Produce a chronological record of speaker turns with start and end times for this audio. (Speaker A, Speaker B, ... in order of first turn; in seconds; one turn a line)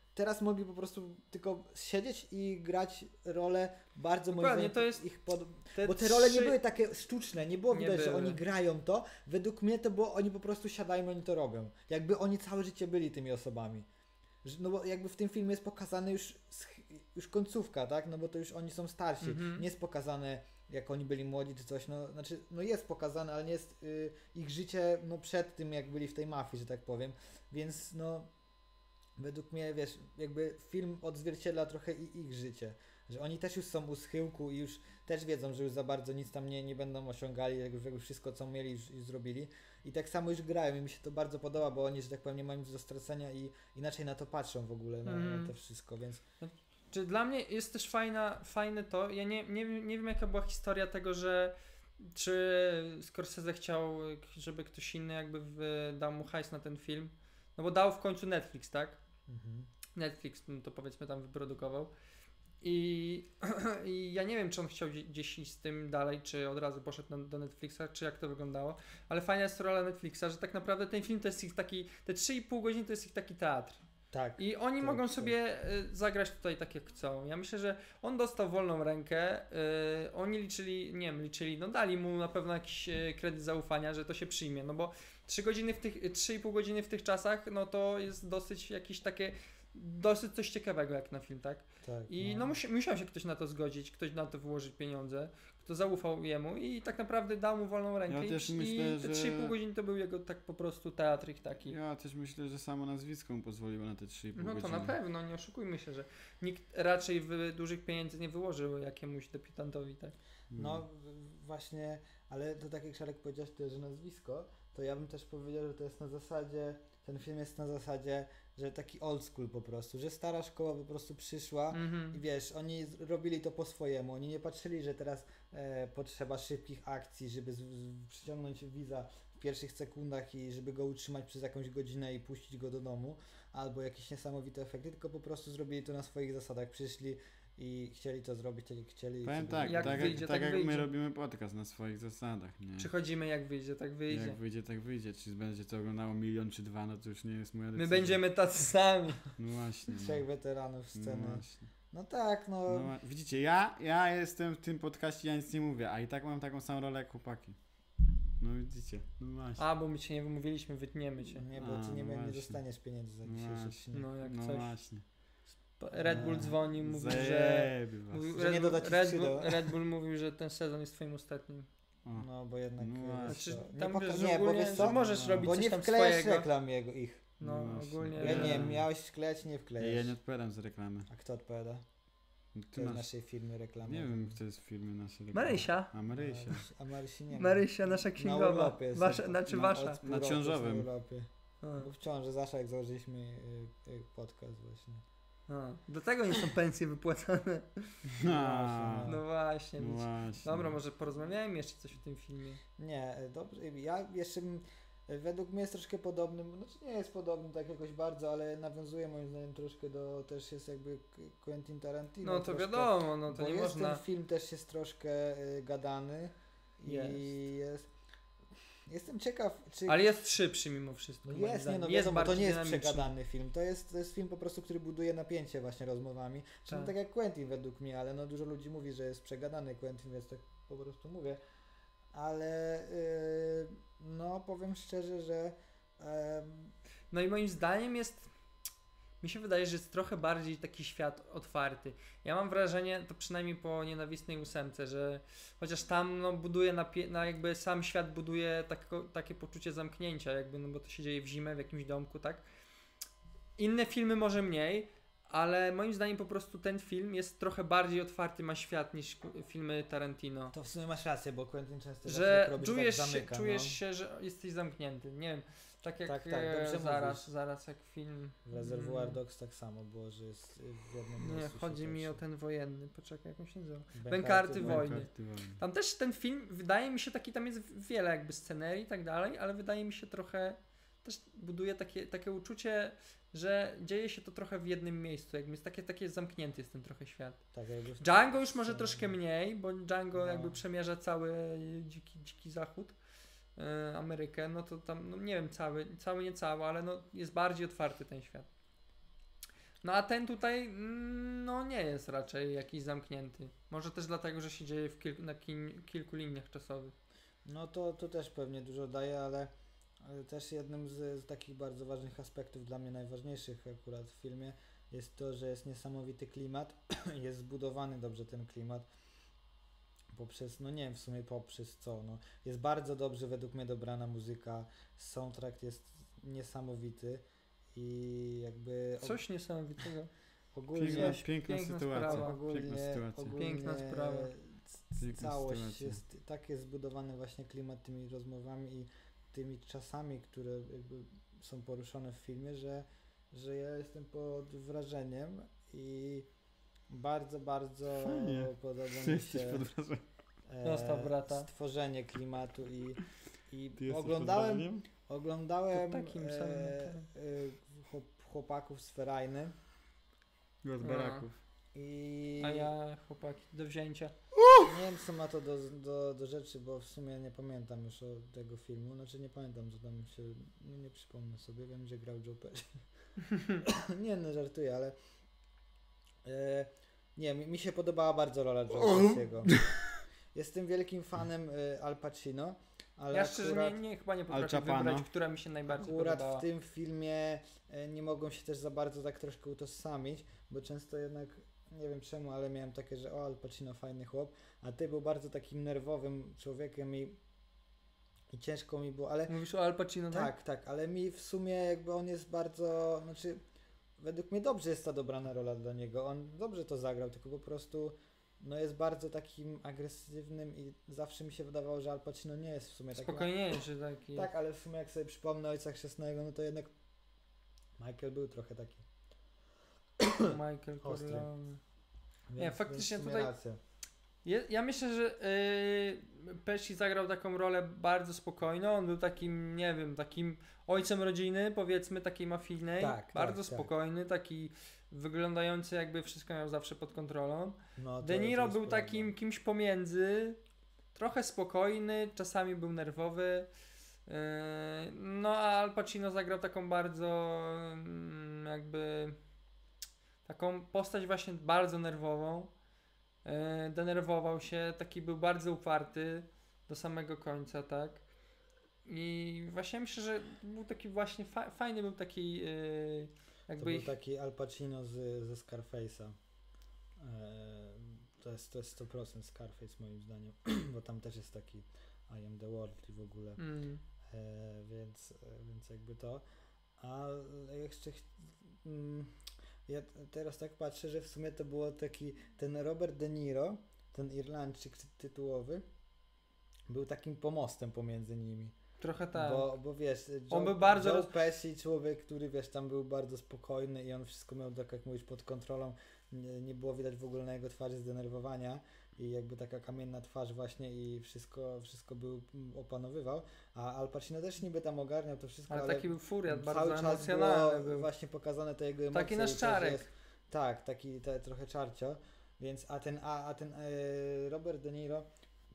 Speaker A: 0.1-13.9
Speaker B: 4.3-5.0
Speaker B: 5.7-6.6
Speaker B: 7.7-8.4
Speaker A: 14.4-28.3
Speaker B: 19.2-19.7
Speaker A: 29.2-46.2
Speaker B: 45.1-45.5
Speaker B: 46.4-59.0
Speaker A: 59.3-59.7
Speaker B: 60.0-61.9
Speaker B: 62.6-73.8
Speaker A: 74.1-75.3
Speaker B: 74.4-101.8
Speaker A: 91.8-92.6
Speaker C: 98.1-99.5
Speaker C: 101.7-105.0
Speaker B: 104.3-110.2
Speaker C: 110.5-110.8
Speaker A: 110.5-140.2
Speaker B: 121.7-122.2
Speaker C: 139.2-142.9
Speaker B: 139.7-140.9
Speaker B: 142.8-144.4
Speaker C: 144.1-148.2
Speaker B: 147.8-149.3
Speaker C: 149.4-150.2
Speaker A: 149.9-152.9
Speaker C: 150.9-151.7
Speaker C: 152.7-157.6
Speaker C: 158.4-159.6
Speaker B: 159.6-161.4
Speaker A: 161.2-164.1
Speaker C: 161.6-162.6
Speaker C: 163.2-165.0
Speaker B: 163.9-164.7
Speaker B: 165.8-171.7
Speaker A: 165.9-166.6
Speaker C: 166.2-168.3
Speaker A: 168.3-169.8
Speaker A: 172.1-177.3
Speaker C: 172.8-173.5
Speaker B: 173.3-176.5
Speaker C: 174.7-175.5
Speaker B: 177.4-178.7
Speaker C: 177.4-178.9
Speaker A: 178.2-180.2
Speaker C: 179.8-181.1
Speaker A: 181.1-181.8
Speaker C: 182.6-183.1
Speaker A: 182.8-184.4
Speaker C: 183.9-186.7
Speaker B: 185.3-185.9
Speaker A: 186.1-195.0
Speaker B: 187.3-190.0
Speaker C: 190.0-190.9
Speaker B: 191.6-191.9
Speaker B: 195.5-197.9
Speaker C: 198.1-199.2
Speaker A: 198.2-199.2
Speaker B: 199.1-202.6
Speaker C: 199.8-200.8
Speaker A: 202.8-217.9
Speaker B: 212.2-214.0
Speaker B: 216.8-217.3
Speaker A: 218.9-220.2
Speaker B: 219.9-223.1
Speaker A: 221.2-231.4
Speaker B: 226.7-226.9
Speaker A: 232.1-236.7
Speaker B: 237.1-238.3
Speaker B: 239.2-252.4
Speaker B: 253.6-260.5
Speaker A: 260.5-263.8
Speaker B: 262.1-269.2
Speaker A: 266.1-267.3
Speaker A: 268.5-272.2
Speaker B: 271.2-287.4
Speaker A: 273.9-275.0
Speaker C: 274.6-275.6
Speaker A: 287.5-289.1
Speaker B: 288.0-292.9
Speaker A: 290.1-290.6
Speaker B: 293.6-298.5
Speaker B: 299.8-306.9
Speaker A: 307.4-318.9
Speaker A: 320.1-329.2
Speaker B: 329.0-330.1
Speaker A: 330.5-331.2
Speaker C: 330.8-333.4
Speaker B: 330.8-332.4
Speaker A: 332.0-346.3
Speaker B: 333.4-334.3
Speaker C: 335.0-336.0
Speaker A: 346.9-349.6
Speaker C: 348.0-350.0
Speaker A: 350.5-359.6
Speaker B: 350.6-351.5
Speaker C: 353.8-354.9
Speaker B: 355.7-357.1
Speaker C: 360.6-361.4
Speaker B: 360.8-361.3
Speaker A: 361.7-362.7
Speaker B: 362.4-364.1
Speaker C: 364.4-364.7
Speaker A: 364.6-372.8
Speaker B: 373.3-373.6
Speaker A: 373.6-375.0
Speaker A: 376.2-379.6
Speaker C: 378.9-379.6
Speaker A: 380.3-383.8
Speaker B: 383.1-386.4
Speaker C: 384.3-385.1
Speaker A: 385.7-397.2
Speaker A: 398.3-399.4
Speaker B: 399.3-400.3
Speaker A: 400.1-403.4
Speaker A: 404.0-413.3
Speaker B: 412.9-414.3
Speaker A: 414.1-416.7
Speaker A: 417.8-418.9
Speaker A: 420.0-421.3
Speaker B: 420.2-421.6
Speaker A: 422.3-423.6
Speaker B: 422.4-423.3
Speaker B: 424.2-440.4
Speaker A: 432.8-433.7
Speaker A: 437.8-439.1
Speaker B: 440.9-443.5
Speaker B: 444.1-449.2
Speaker B: 450.3-452.5
Speaker B: 453.2-458.0
Speaker B: 458.9-463.9
Speaker A: 463.6-466.2
Speaker A: 467.0-473.4
Speaker B: 473.4-473.8
Speaker A: 474.1-476.2
Speaker A: 476.8-485.6
Speaker A: 486.7-488.6
Speaker B: 488.8-489.5
Speaker A: 489.1-515.1
Speaker B: 490.3-491.1
Speaker B: 505.5-507.9
Speaker B: 508.9-509.9